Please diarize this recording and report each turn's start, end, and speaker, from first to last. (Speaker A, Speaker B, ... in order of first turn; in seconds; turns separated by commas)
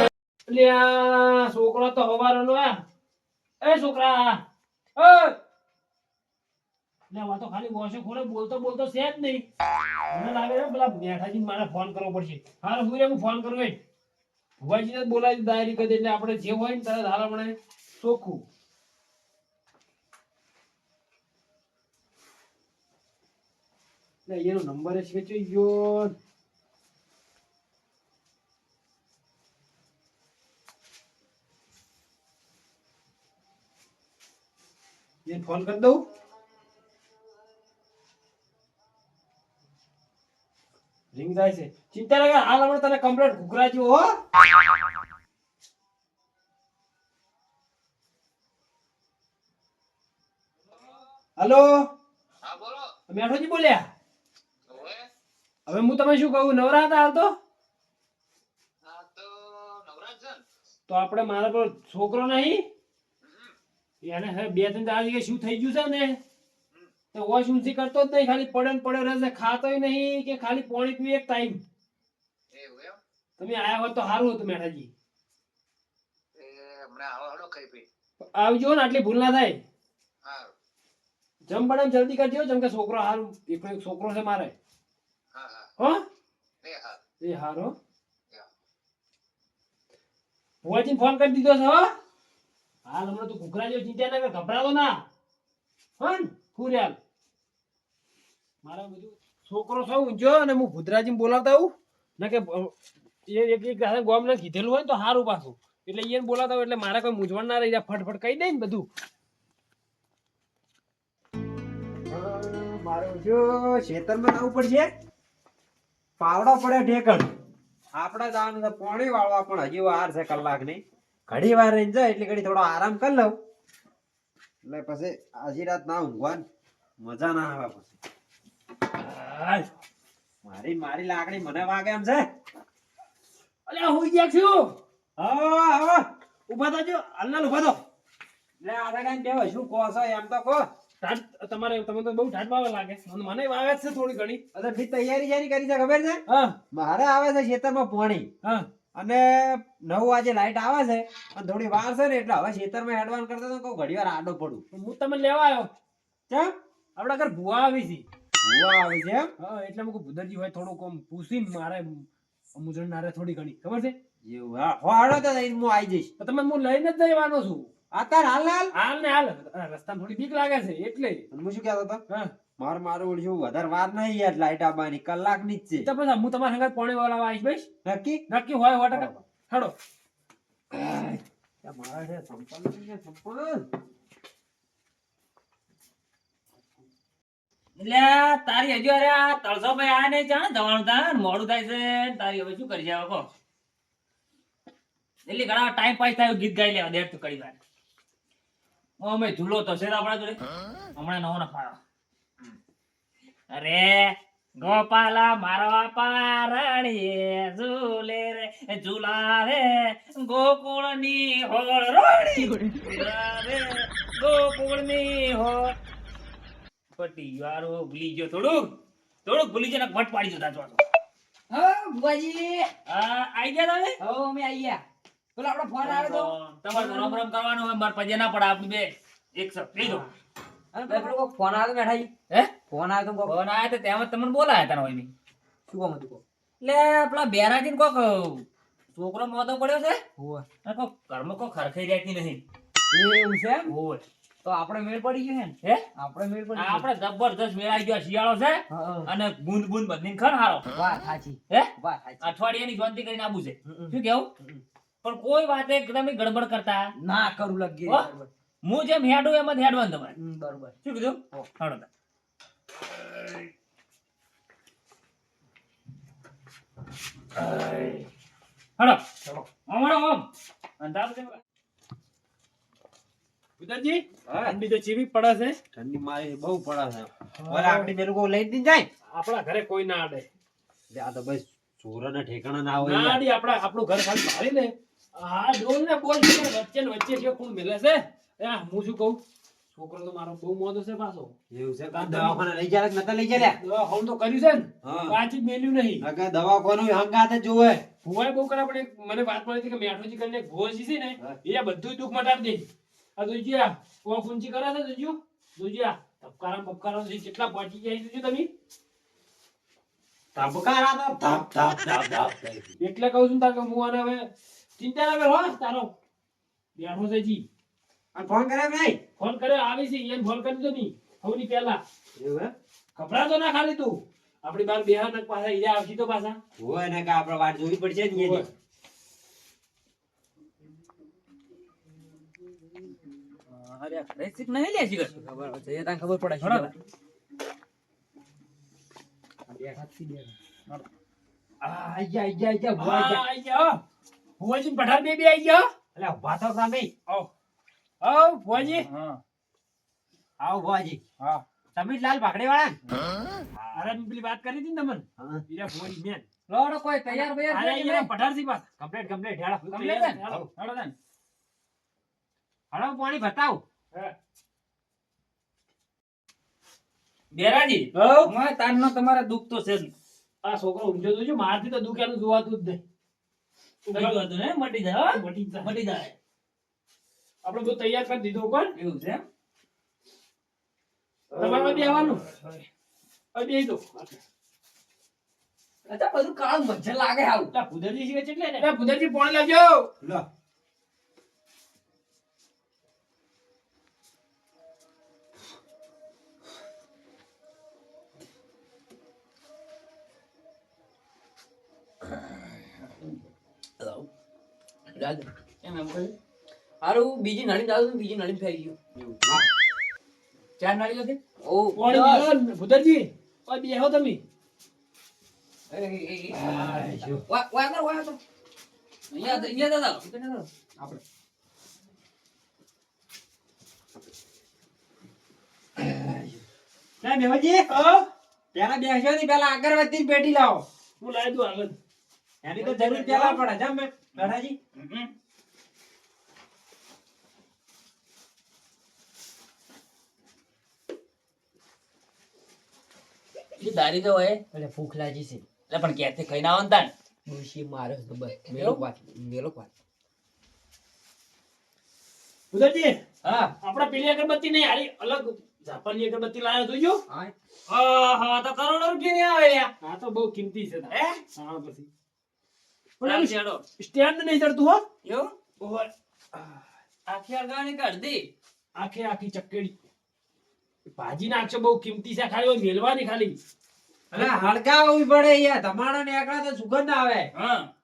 Speaker A: 0.5-2.8, Speaker A: 3.6-4.4, Speaker A: 5.0-5.4, Speaker A: 7.1-9.4, Speaker A: 10.1-13.8, Speaker A: 14.6-18.4, Speaker A: 24.3-26.1, Speaker A: 35.2-36.0, Speaker A: 41.1-44.2, Speaker A: 51.4-51.8, Speaker B: 52.5-52.9, Speaker A: 53.1-53.8, Speaker B: 54.7-55.1, Speaker A: 55.7-57.3, Speaker B: 58.9-60.4, Speaker C: 59.3-60.1, Speaker A: 60.9-62.6, Speaker A: 64.0-66.2, Speaker A: 67.1-71.6, Speaker B: 72.5-73.0, Speaker A: 73.4-74.9, Speaker B: 76.3-77.8, Speaker A: 78.2-79.6, Speaker B: 80.3-80.5, Speaker A: 81.5-84.6, Speaker B: 85.4-85.6, Speaker B: 86.6-87.0, Speaker A: 87.2-87.8, Speaker A: 90.6-91.9, Speaker A: 92.8-95.0, Speaker A: 96.0-97.0, Speaker A: 98.6-102.7, Speaker A: 103.3-108.9, Speaker D: 112.1-114.9, Speaker D: 116.2-117.3, Speaker D: 118.0-123.4, Speaker D: 124.6-126.5, Speaker D: 127.0-127.9, Speaker A: 129.0-129.7, Speaker D: 130.4-132.3, Speaker A: 133.7-134.7, Speaker D: 135.2-136.1, Speaker A: 136.5-137.8, Speaker D: 138.6-140.7, Speaker A: 141.0-144.4, Speaker D: 144.5-148.3, Speaker A: 146.3-146.6, Speaker D: 148.9-154.6, Speaker A: 154.7-155.7, Speaker D: 156.3-156.5, Speaker A: 157.0-158.1, Speaker D: 158.4-159.3, Speaker A: 159.4-163.9, Speaker D: 164.2-166.1, Speaker A: 166.2-167.7, Speaker D: 167.9-168.7, Speaker A: 168.7-171.3, Speaker D: 171.3-172.0, Speaker D: 172.6-175.9, Speaker A: 175.8-177.7, Speaker D: 177.8-178.2, Speaker A: 178.3-179.7, Speaker D: 178.9-179.2, Speaker D: 180.7-183.7, Speaker C: 187.8-193.3, Speaker C: 195.3-197.6, Speaker C: 199.0-200.4, Speaker C: 201.0-201.8, Speaker C: 203.5-215.8, Speaker E: 212.4-212.9, Speaker C: 216.9-218.7, Speaker C: 219.2-220.8, Speaker E: 221.5-222.7, Speaker C: 222.9-224.0, Speaker E: 224.0-224.8, Speaker E: 225.4-227.2, Speaker C: 225.8-230.1, Speaker E: 229.8-230.1, Speaker E: 230.7-232.1, Speaker C: 230.9-231.2, Speaker E: 232.7-233.4, Speaker C: 233.2-235.1, Speaker E: 235.7-236.2, Speaker C: 236.6-240.0, Speaker E: 240.2-240.4, Speaker C: 240.7-242.4, Speaker E: 242.9-243.7, Speaker C: 243.7-244.0, Speaker E: 244.4-246.9, Speaker C: 246.6-250.7, Speaker E: 248.7-249.1, Speaker E: 250.8-252.3, Speaker C: 251.5-254.3, Speaker E: 253.7-254.6, Speaker C: 255.0-256.9, Speaker E: 257.0-258.3, Speaker C: 258.6-260.1, Speaker E: 260.2-260.8, Speaker C: 260.8-261.9, Speaker C: 267.4-268.1, Speaker C: 269.7-270.3, Speaker C: 270.8-271.4, Speaker A: 273.6-275.6, Speaker D: 274.3-274.6, Speaker D: 275.7-278.9, Speaker A: 277.4-277.9, Speaker A: 279.1-280.3, Speaker D: 280.9-283.2, Speaker A: 282.8-289.2, Speaker A: 289.7-291.4, Speaker D: 291.5-293.6, Speaker A: 291.9-292.4, Speaker A: 293.4-296.1, Speaker D: 294.8-295.2, Speaker D: 296.0-297.8, Speaker A: 298.0-308.5, Speaker D: 310.4-312.8, Speaker A: 312.8-315.9, Speaker A: 316.8-317.4, Speaker D: 318.1-319.0, Speaker A: 319.2-321.8, Speaker D: 322.2-322.5, Speaker A: 322.9-326.4, Speaker D: 326.6-328.5, Speaker A: 328.1-328.5, Speaker C: 333.5-335.2, Speaker E: 335.1-336.7, Speaker C: 336.4-336.7, Speaker E: 339.5-340.4, Speaker D: 341.6-342.0, Speaker E: 341.7-343.2, Speaker A: 342.8-343.8, Speaker A: 344.4-345.7, Speaker D: 345.9-346.9, Speaker A: 348.0-348.9, Speaker C: 348.7-349.2, Speaker D: 350.4-351.0, Speaker D: 351.7-352.8, Speaker D: 353.6-353.9, Speaker A: 353.7-356.3, Speaker D: 355.2-355.4, Speaker C: 356.5-358.1, Speaker A: 357.1-358.7, Speaker D: 358.8-359.7, Speaker A: 359.6-360.5, Speaker C: 359.7-360.9, Speaker D: 362.7-363.6, Speaker C: 367.3-369.9, Speaker A: 367.9-368.3, Speaker A: 370.4-372.8, Speaker A: 373.9-374.2, Speaker C: 373.9-376.1, Speaker A: 375.1-375.7, Speaker A: 377.4-378.7, Speaker C: 378.8-379.2, Speaker A: 381.4-382.2, Speaker C: 382.0-382.6, Speaker A: 383.3-384.2, Speaker E: 385.9-387.5, Speaker A: 387.5-389.9, Speaker E: 403.8-404.1, Speaker E: 404.9-405.3, Speaker C: 405.6-406.1, Speaker E: 406.8-409.5, Speaker C: 410.6-411.2, Speaker E: 411.4-412.3, Speaker A: 411.8-414.2, Speaker E: 415.7-418.2, Speaker D: 416.3-417.2, Speaker C: 419.1-420.0, Speaker E: 419.2-421.0, Speaker D: 425.8-426.3, Speaker D: 427.0-427.7, Speaker A: 427.7-428.1, Speaker D: 428.5-430.6, Speaker A: 431.0-431.8, Speaker D: 432.4-434.6, Speaker A: 432.6-433.4, Speaker C: 434.2-435.1, Speaker C: 443.6-444.4, Speaker E: 444.5-445.4, Speaker C: 445.7-446.9, Speaker E: 447.3-449.7, Speaker C: 448.5-448.8, Speaker A: 452.5-453.0, Speaker C: 453.2-453.5, Speaker A: 453.6-457.0, Speaker C: 457.7-459.7, Speaker A: 459.8-461.9, Speaker C: 460.9-461.2, Speaker A: 463.0-464.8, Speaker C: 463.0-463.6, Speaker C: 465.0-465.3, Speaker A: 465.6-466.6, Speaker C: 467.1-468.3, Speaker A: 468.8-469.8, Speaker A: 470.9-473.4, Speaker C: 474.1-474.4, Speaker D: 474.1-477.3, Speaker C: 477.4-477.7